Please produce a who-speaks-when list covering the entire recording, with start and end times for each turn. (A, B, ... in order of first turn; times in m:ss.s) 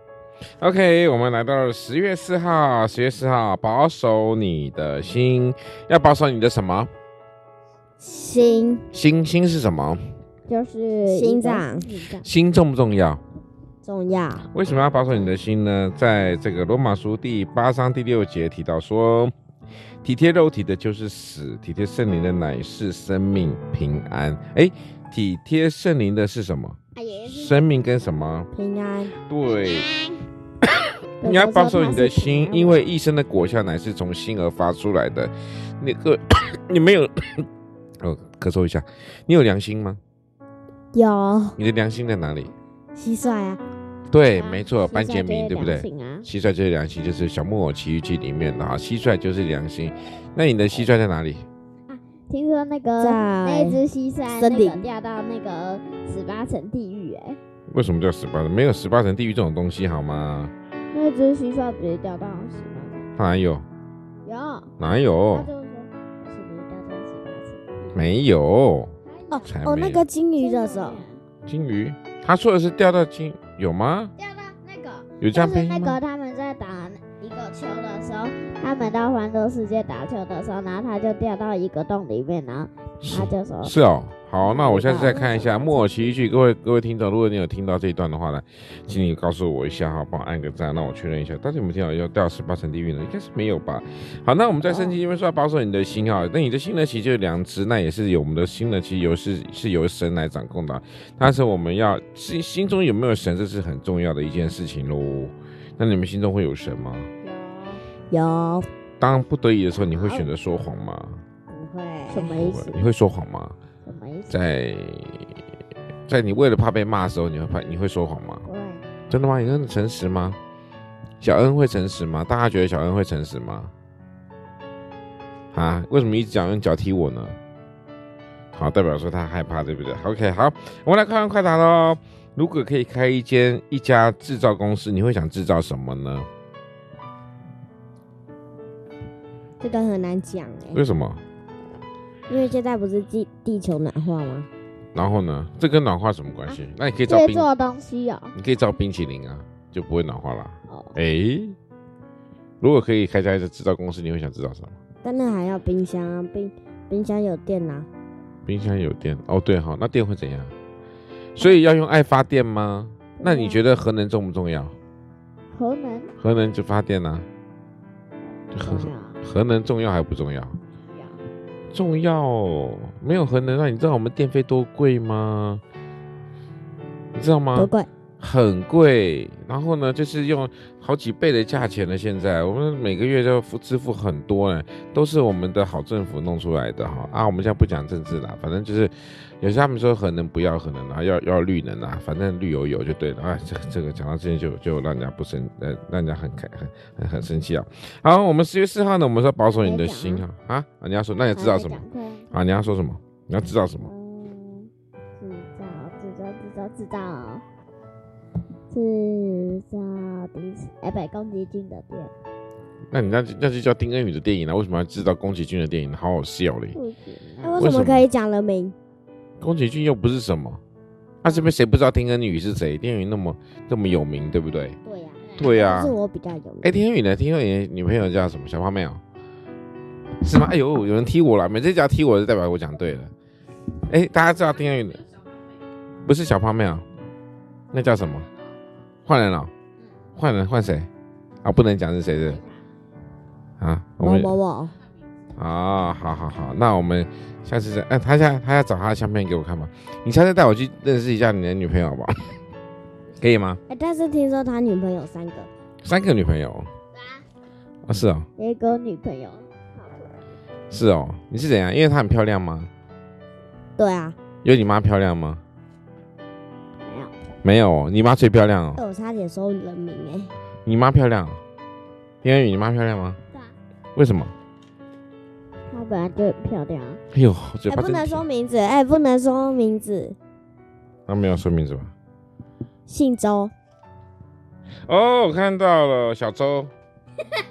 0:00.6-0:06.9 A
0:08.0-0:08.9 B
0:08.9-0:10.0 A
0:10.5-0:12.3 C
0:11.0-0:11.9 B
0:12.2-0:13.2 A
0:13.8-0:14.5 B
0:14.4-0:19.3 A
0:20.0-0:28.5 A
0:26.9-0:27.7 C
0:28.5-0:29.2 B
0:29.3-0:29.9 A
0:29.5-0:30.2 C
0:31.2-0:32.9 C
0:31.2-0:37.5 A
0:38.0-0:40.0 A
0:40.9-0:41.6 B
0:41.6-0:42.5 A
0:42.9-0:43.6 B
0:44.1-0:51.4 A
0:44.2-0:46.3 C
0:51.9-0:57.4 C
0:53.0-0:54.8 B
0:57.7-1:00.5 A
1:00.9-1:03.1 C
1:03.2-1:03.6 A
1:04.2-1:04.7 C
1:04.8-1:05.5 A
1:05.3-1:08.0 C
1:07.9-1:10.0 A
1:09.1-1:09.5 C
1:09.3-1:11.0 B
1:10.4-1:11.2 C
1:11.4-1:14.1 A
1:14.2-1:23.7 C
1:15.2-1:16.0 A
1:23.0-1:47.1 A
1:24.4-1:25.8 C
1:34.6-1:34.9 C
1:47.2-1:47.8 C
1:48.1-1:48.7 B
1:49.0-1:51.2 A
1:49.8-1:50.3 C
1:51.5-1:52.3 B
1:52.1-1:52.9 C
1:52.2-1:53.6 A
1:53.8-1:54.4 C
1:54.3-1:55.4 A
1:56.1-1:58.4 A
1:58.4-1:58.8 C
1:59.1-2:00.4 A
2:01.2-2:03.7 A
2:05.5-2:07.4 A
2:08.5-2:16.3 A
2:19.6-2:20.8 B
2:20.7-2:21.2 A
2:22.3-2:24.5 B
2:24.9-2:27.5 A
2:26.5-2:28.3 C
2:28.3-2:31.6 A
2:30.7-2:30.9 C
2:32.6-2:34.8 A
2:35.0-2:37.9 B
2:38.4-2:40.5 A
2:41.4-2:44.7 A
2:43.2-2:43.6 C
2:45.5-2:46.1 C
2:46.2-2:47.3 A
2:48.4-2:49.2 C
2:48.5-2:50.6 A
2:50.9-2:51.2 C
2:51.7-2:55.6 A
2:57.1-3:23.9 A
2:57.5-2:57.9 B
3:19.6-3:20.2 C
3:21.3-3:22.3 C
3:23.8-3:27.4 C
3:28.7-3:32.1 C
3:32.9-3:36.8 A
3:36.7-3:37.6 C
3:37.4-3:38.7 B
3:37.6-3:38.1 A
3:39.4-3:40.6 A
3:41.2-3:44.8 A
3:44.8-3:46.8 B
3:45.4-3:45.9 A
3:46.6-3:49.0 A
3:50.2-3:53.1 A
3:53.9-3:55.1 A
3:56.0-3:56.8 A
3:57.7-3:58.3 A
3:59.0-3:59.5 A
4:00.2-4:00.9 A
4:01.4-4:02.4 A
4:02.2-4:02.6 C
4:03.6-4:04.3 A
4:04.0-4:04.8 B
4:05.4-4:12.3 A
4:13.2-4:13.6 A
4:13.7-4:15.5 B
4:15.8-4:16.7 A
4:17.8-4:18.3 A
4:18.4-4:19.5 C
4:20.7-4:22.7 A
4:23.8-4:24.2 B
4:24.4-4:25.4 A
4:26.8-4:27.1 C
4:27.4-4:28.8 A
4:28.8-4:30.3 B
4:30.6-4:31.4 A
4:32.2-4:33.2 A
4:33.9-4:34.3 A
4:35.7-4:37.0 C
4:37.1-4:38.2 A
4:37.7-4:40.2 B
4:41.1-4:41.9 A
4:42.9-4:43.5 B
4:44.8-4:46.7 A